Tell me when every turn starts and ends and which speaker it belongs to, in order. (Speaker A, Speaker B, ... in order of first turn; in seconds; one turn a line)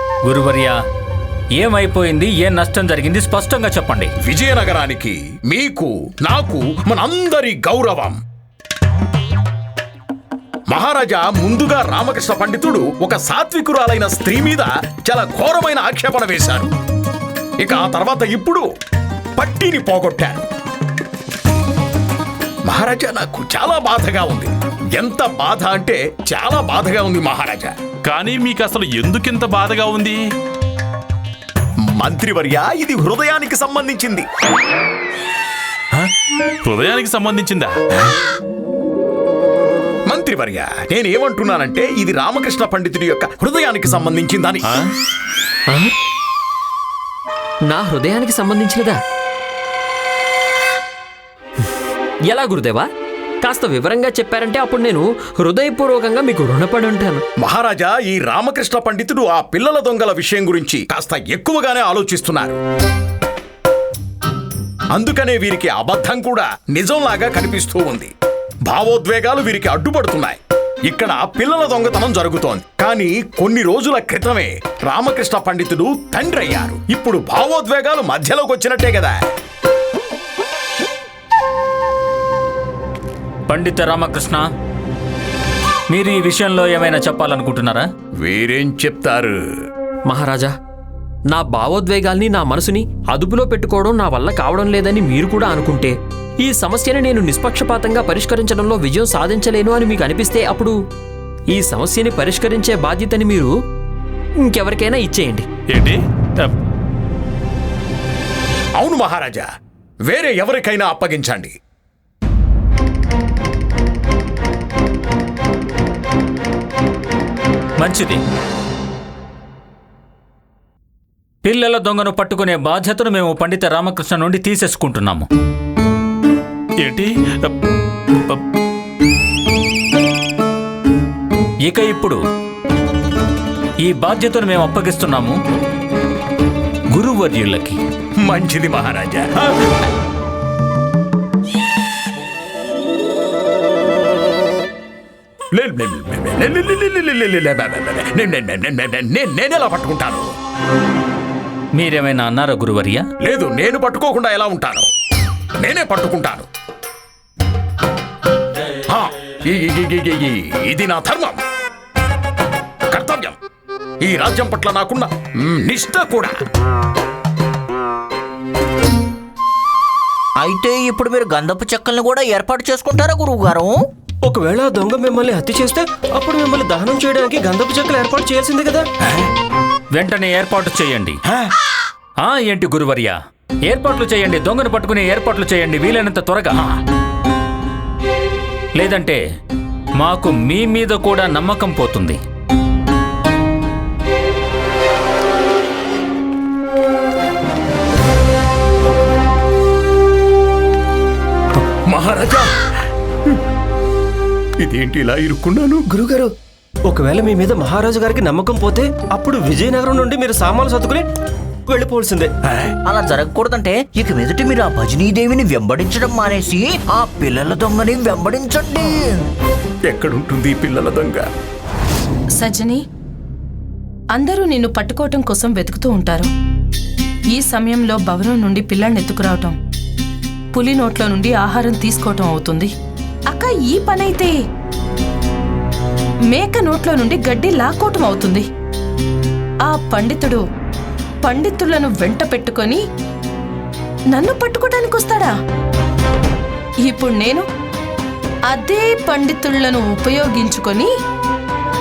Speaker A: 0.2-0.8
Speaker A: 1.6-4.1
Speaker B: 4.2-8.2
Speaker B: 10.7-16.7
Speaker B: 17.6-18.6
Speaker B: 19.4-20.4
Speaker B: 22.7-27.7
Speaker C: 28.1-30.2
Speaker B: 31.9-34.3
Speaker C: 36.6-37.8
Speaker B: 40.1-44.8
Speaker D: 47.7-49.0
Speaker D: 52.3-52.9
Speaker D: 53.4-57.2
Speaker B: 57.4-62.6
Speaker B: 64.9-68.1
Speaker B: 68.7-79.2
Speaker A: 83.5-84.5
Speaker A: 85.9-87.9
Speaker B: 88.2-89.3
Speaker D: 90.1-90.5
Speaker D: 91.3-100.8
Speaker D: 101.5-103.5
Speaker D: 104.4-105.5
Speaker C: 105.7-106.5
Speaker B: 108.8-109.5
Speaker B: 110.1-111.5
Speaker A: 117.8-118.2
Speaker A: 121.4-125.3
Speaker C: 126.8-127.1
Speaker A: 131.7-132.2
Speaker A: 133.8-135.4
Speaker A: 136.9-137.8
Speaker B: 138.2-139.8
Speaker B: 145.5-150.3
Speaker A: 151.8-153.1
Speaker B: 153.2-154.9
Speaker B: 155.6-156.5
Speaker B: 158.9-161.4
Speaker B: 162.9-163.4
Speaker B: 164.0-166.4
Speaker E: 170.4-173.8
Speaker F: 174.2-178.9
Speaker A: 179.9-181.2
Speaker A: 182.2-186.6
Speaker A: 188.8-189.2
Speaker A: 190.0-192.2
Speaker B: 201.9-202.5
Speaker B: 204.6-205.9
Speaker F: 205.9-206.3
Speaker F: 206.9-211.1
Speaker F: 211.7-212.3
Speaker B: 212.5-212.7
Speaker E: 212.8-219.2
Speaker B: 219.9-221.3
Speaker G: 222.4-222.8
Speaker G: 224.1-226.3
Speaker G: 227.3-229.6
Speaker G: 230.5-232.7
Speaker G: 233.3-234.3
Speaker G: 236.3-238.5
Speaker G: 239.7-240.4
Speaker G: 241.2-242.8
Speaker G: 244.1-245.3
Speaker G: 246.9-247.4
Speaker G: 248.5-250.9